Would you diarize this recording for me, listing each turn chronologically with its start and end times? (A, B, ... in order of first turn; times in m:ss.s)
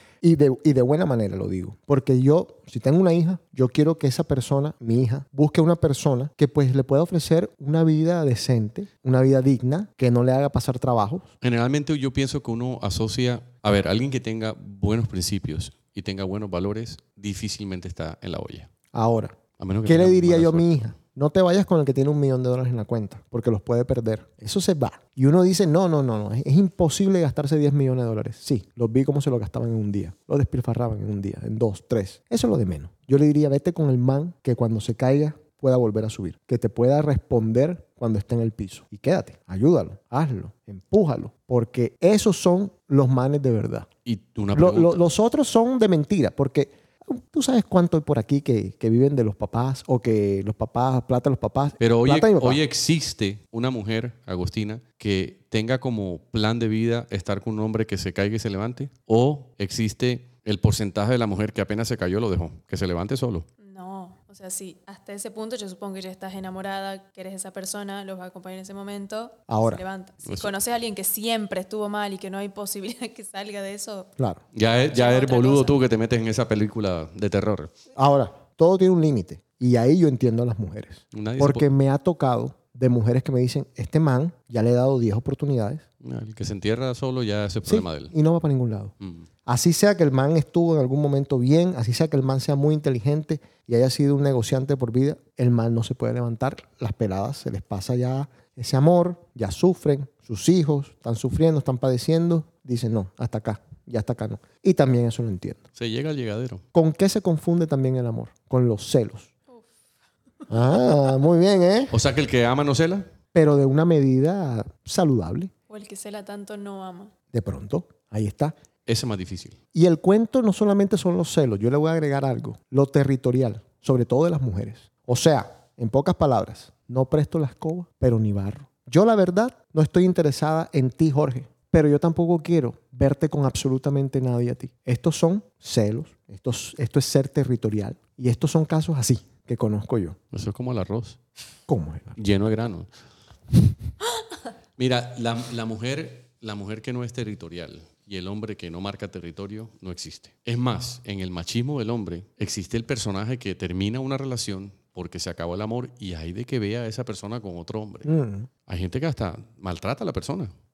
0:00.2-0:11.3 A
0:11.4-0:18.7 B
0:18.9-0:43.9 A
0:19.6-0:20.9 B
0:44.1-0:45.0 B
0:44.5-0:52.6 A
0:51.8-1:03.5 B
1:03.6-1:14.1 C
1:09.5-1:09.8 A
1:10.3-1:10.5 B
1:14.5-1:17.7 B
1:14.9-1:15.8 C
1:18.0-1:25.8 A
1:21.1-1:21.7 B
1:26.0-1:28.1 B
1:27.6-1:28.9 A
1:29.0-1:29.3 B
1:29.5-1:45.6 A
1:45.8-1:46.6 B
1:46.7-1:49.3 A
1:50.5-1:52.0 A
1:51.9-1:53.1 B
1:53.3-1:55.5 A
1:55.7-1:57.1 C
1:57.3-1:58.6 A
1:58.9-1:59.6 B
1:59.7-2:20.2 A
2:20.3-2:21.2 B
2:21.7-2:22.2 A
2:22.2-2:22.9 B
2:24.8-2:38.1 B
2:38.0-2:38.5 A
2:38.7-2:40.5 B